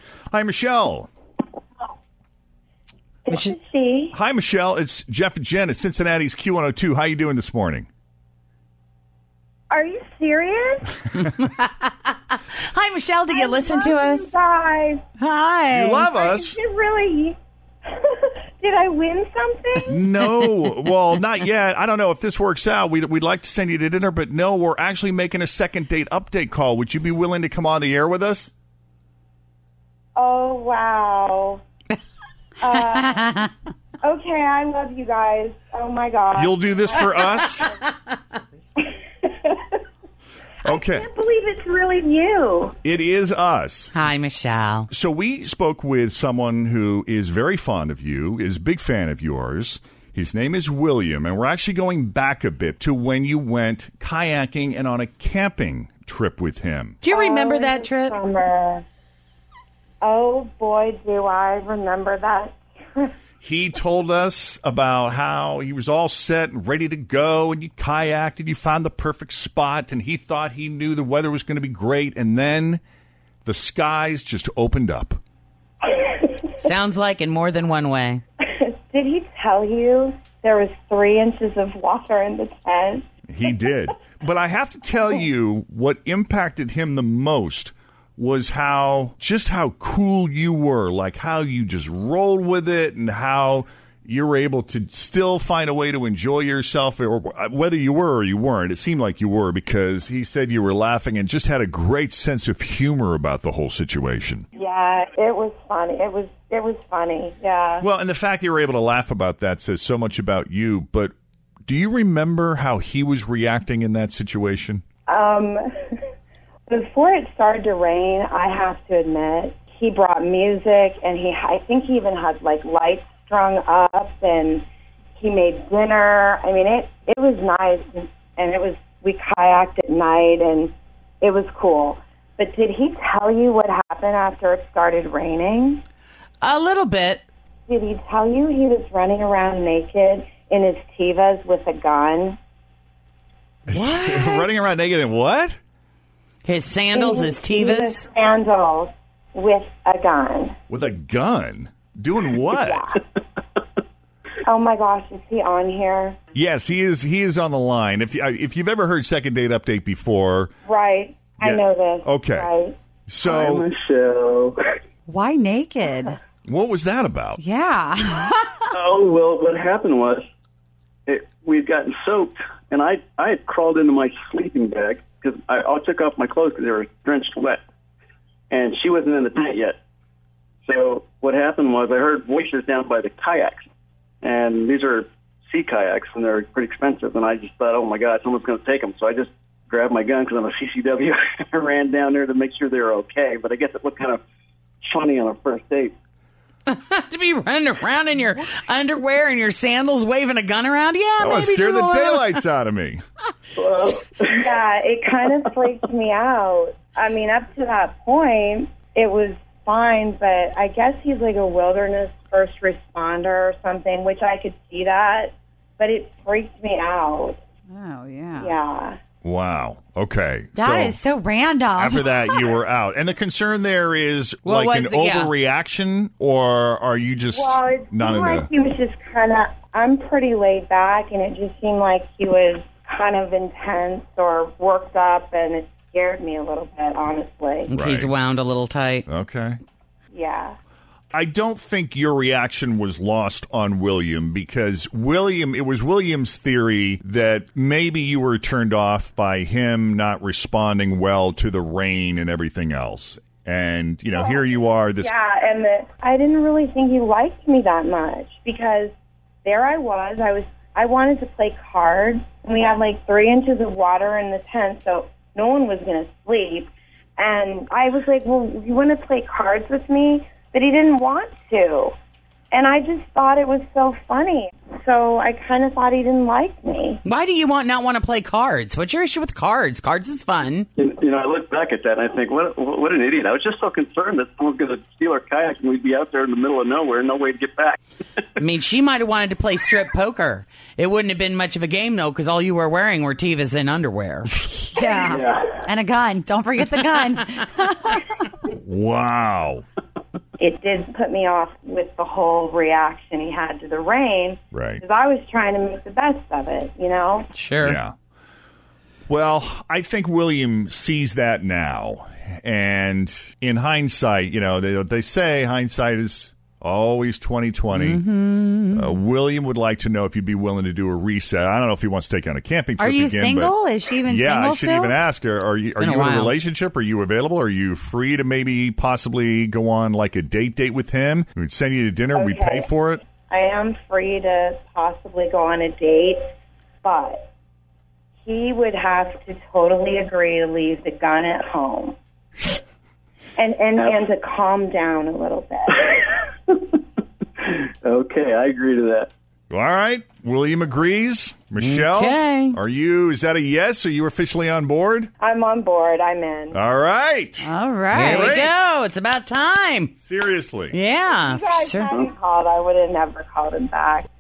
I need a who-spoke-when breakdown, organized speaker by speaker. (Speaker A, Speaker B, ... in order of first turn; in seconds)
Speaker A: 0.3-1.1, 4.1-7.9, 15.7-16.6, 19.9-28.5, 36.4-37.7, 40.6-41.1, 42.8-43.9, 44.9-57.0, 63.4-72.8, 73.4-75.2, 83.3-104.5, 107.8-111.1, 111.7-114.8, 143.7-145.6, 150.7-152.9, 156.3-160.5, 161.4-162.5, 163.1-163.7, 166.4-167.4, 201.2-203.0, 219.2-221.0, 221.8-228.5, 237.7-238.1, 239.1-239.6, 241.1-255.1, 298.5-299.6, 304.5-304.8, 307.6-307.9, 309.1-318.0, 318.7-333.0, 349.5-355.1, 356.5-358.6, 360.0-360.8
Speaker B: 3.3-4.1, 9.7-10.9, 13.3-15.0, 16.1-17.4, 17.9-20.0, 30.1-31.6, 32.6-33.4, 34.0-37.5, 39.2-39.6, 40.6-42.8, 57.1-58.8, 60.0-63.1, 78.4-83.0, 104.5-107.8, 115.1-115.7, 116.7-124.6, 125.2-135.8, 137.7-142.4, 146.9-150.6, 152.5-153.0, 154.4-156.2, 160.7-162.8, 204.3-217.4, 218.4-219.0, 227.3-237.7, 240.1-240.6, 254.1-254.4, 255.0-258.9, 259.4-271.9, 272.5-277.0, 300.4-307.3, 332.1-332.7, 333.2-336.2, 336.8-337.3, 338.2-341.9, 343.4-346.1, 355.2-356.6, 361.1-364.1
Speaker C: 11.2-14.3, 15.2-16.1, 43.9-44.9, 57.0-58.2, 76.6-78.2, 136.4-137.2, 143.7-144.4, 146.4-148.1, 196.7-202.4, 224.4-225.3, 237.7-239.1, 277.0-280.7, 288.4-294.3, 307.3-307.8, 317.7-318.9, 325.8-326.3, 351.6-352.6, 357.9-359.9, 360.7-361.9
Speaker D: 163.2-164.6, 168.7-170.2, 171.1-177.6, 178.5-179.8, 180.6-183.7, 184.2-194.2, 194.8-195.9, 203.6-204.6, 280.8-287.8, 294.9-295.6, 347.4-349.1
Speaker E: 165.1-166.2, 167.4-168.7, 217.7-218.6, 220.6-222.5, 294.5-298.0, 322.8-325.0, 357.4-358.3